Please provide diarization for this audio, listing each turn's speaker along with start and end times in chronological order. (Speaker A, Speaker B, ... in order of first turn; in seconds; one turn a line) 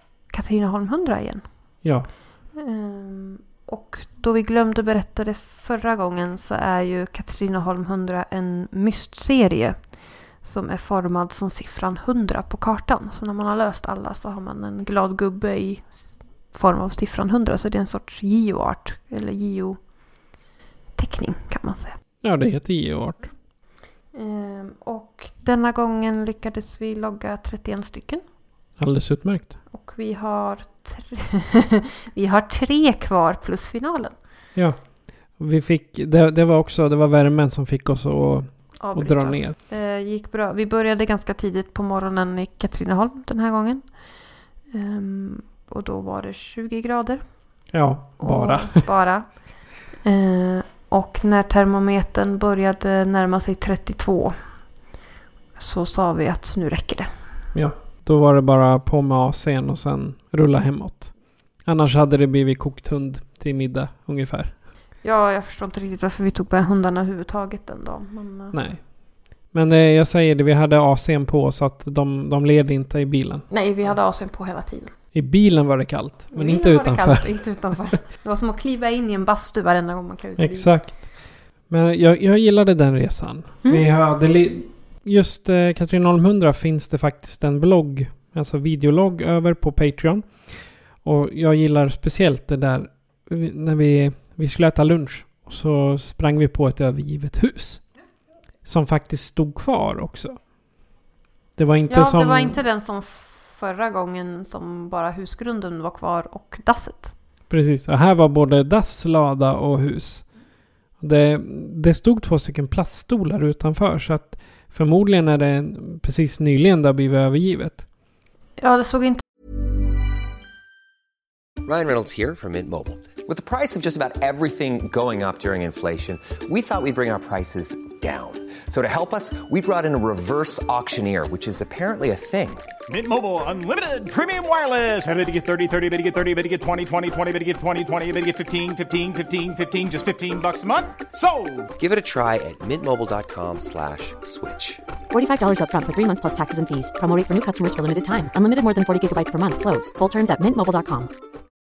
Speaker A: 0.3-1.5
Speaker B: 1.8-2.1
Speaker A: 2.5-19.8
Speaker A: 21.0-22.0
Speaker B: 22.2-23.3
Speaker A: 24.1-28.2
Speaker B: 28.8-29.6
Speaker A: 29.7-34.2
Speaker B: 34.5-39.6
Speaker A: 38.8-44.1
Speaker A: 44.7-47.2
Speaker B: 47.7-48.8
Speaker A: 48.2-54.4
Speaker A: 55.6-57.1
Speaker B: 57.5-64.5
Speaker A: 65.0-68.6
Speaker B: 68.5-73.5
Speaker A: 73.5-74.9
Speaker B: 75.1-78.0
Speaker A: 76.3-80.7
Speaker B: 80.4-97.8
Speaker B: 98.7-100.5
Speaker B: 101.6-102.6
Speaker A: 101.9-107.2
Speaker B: 107.5-110.3
Speaker B: 111.0-117.9
Speaker A: 118.6-119.2
Speaker C: 121.6-132.7
Speaker D: 132.9-141.7
Speaker C: 141.8-144.8
Speaker E: 145.1-151.1